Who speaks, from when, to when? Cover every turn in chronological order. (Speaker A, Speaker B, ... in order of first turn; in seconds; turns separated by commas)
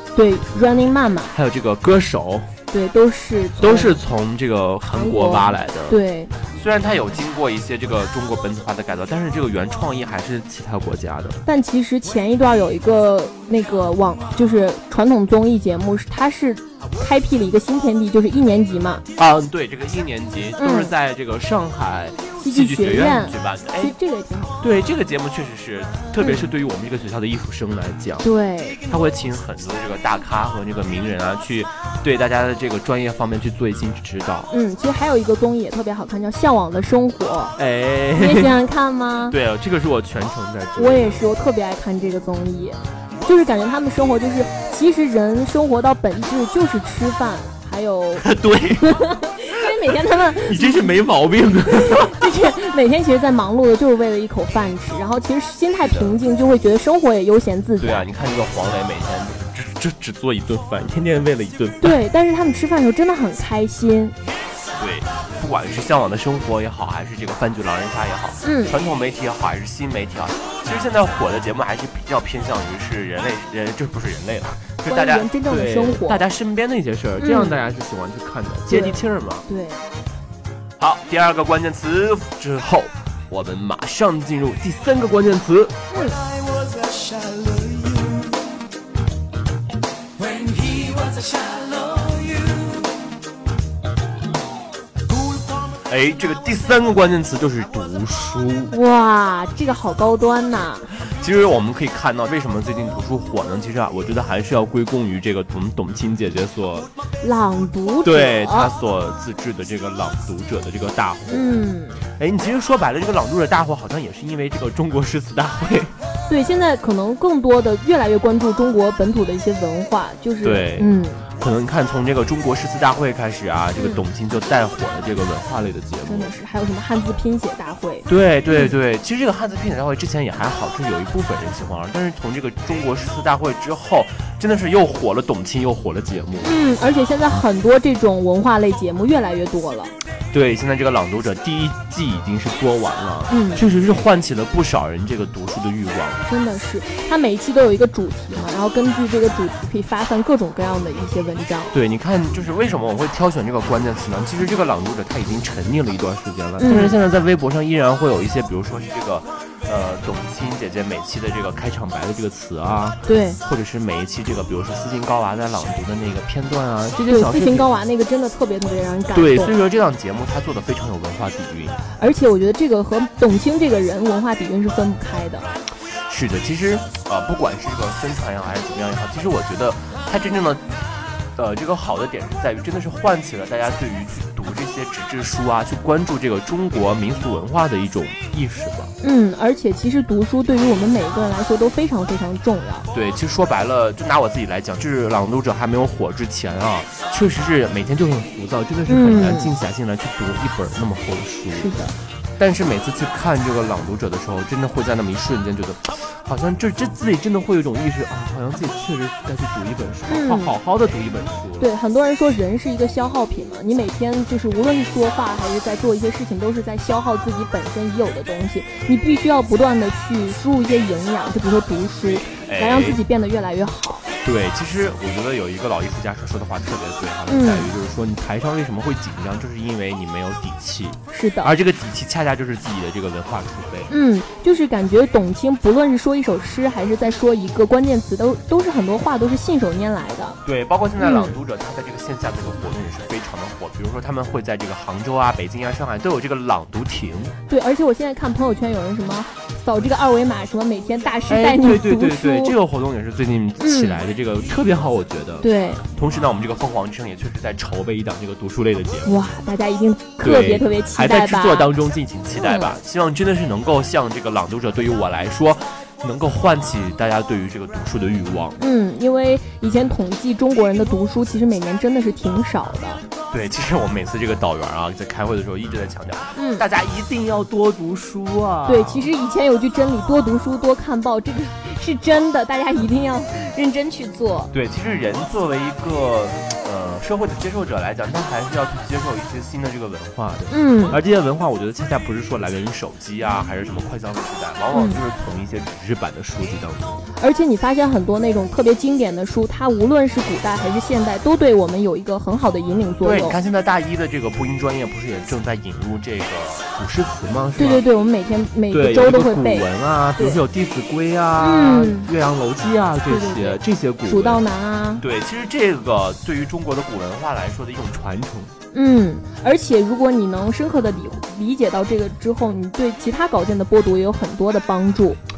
Speaker A: 0.1-1.3, Speaker B: 1.3-2.5, Speaker A: 2.7-4.0, Speaker B: 3.6-6.0, Speaker A: 4.9-6.3, Speaker B: 6.5-11.4, Speaker A: 11.4-19.0, Speaker B: 19.1-23.9, Speaker A: 20.6-20.9, Speaker A: 22.4-24.6, Speaker B: 24.6-28.2, Speaker A: 26.2-26.4, Speaker A: 28.2-28.8, Speaker B: 28.8-34.5, Speaker A: 34.5-37.5, Speaker B: 37.6-38.6, Speaker A: 38.1-39.4, Speaker B: 39.3-41.3, Speaker A: 40.8-48.3, Speaker B: 48.2-49.7, Speaker A: 48.8-50.9, Speaker B: 50.4-52.2, Speaker A: 51.7-58.0, Speaker B: 55.9-56.2, Speaker B: 57.8-62.0, Speaker A: 61.8-64.2, Speaker B: 64.7-79.5, Speaker A: 68.4-68.7, Speaker A: 74.9-76.2, Speaker A: 77.2-77.6, Speaker A: 78.7-79.8, Speaker B: 80.8-85.8, Speaker A: 85.9-86.2, Speaker C: 86.4-88.2, Speaker C: 90.2-92.9, Speaker C: 95.1-95.5, Speaker B: 95.9-98.7, Speaker A: 98.7-100.9, Speaker B: 101.1-106.9, Speaker A: 107.2-108.7, Speaker B: 108.0-115.9, Speaker A: 111.3-112.0, Speaker A: 116.3-121.2, Speaker B: 120.4-126.3, Speaker A: 123.8-124.0, Speaker A: 126.0-128.7, Speaker B: 128.1-136.5, Speaker A: 136.4-139.9, Speaker B: 140.3-146.2, Speaker A: 143.3-143.6, Speaker A: 146.2-151.7, Speaker B: 151.7-167.7, Speaker A: 156.6-157.0, Speaker A: 163.1-163.4, Speaker A: 167.1-169.6, Speaker B: 169.1-171.8, Speaker A: 172.0-175.5, Speaker B: 176.1-180.7, Speaker B: 181.3-188.9, Speaker A: 189.0-192.9, Speaker B: 192.9-201.7, Speaker A: 198.9-199.5, Speaker A: 201.5-201.9, Speaker B: 202.4-211.7, Speaker A: 210.1-210.5, Speaker A: 211.6-224.0, Speaker B: 222.4-223.0, Speaker B: 224.2-233.9, Speaker A: 227.3-227.7, Speaker A: 231.1-231.5, Speaker A: 233.9-240.4, Speaker B: 240.4-247.3, Speaker A: 241.0-241.3, Speaker A: 247.5-252.5, Speaker B: 251.3-259.3, Speaker A: 253.6-254.0, Speaker A: 255.4-255.8, Speaker A: 259.0-261.7, Speaker B: 260.2-268.6, Speaker A: 262.3-262.8, Speaker A: 268.6-273.0, Speaker B: 273.3-279.1, Speaker A: 276.4-276.6, Speaker A: 278.6-284.5, Speaker B: 284.5-297.0, Speaker A: 290.5-291.0, Speaker A: 294.7-295.0, Speaker A: 297.1-303.4, Speaker B: 303.0-307.8, Speaker A: 307.6-310.4, Speaker B: 308.7-314.4, Speaker A: 311.4-312.1, Speaker A: 313.1-315.0, Speaker B: 315.0-318.5, Speaker A: 318.7-325.2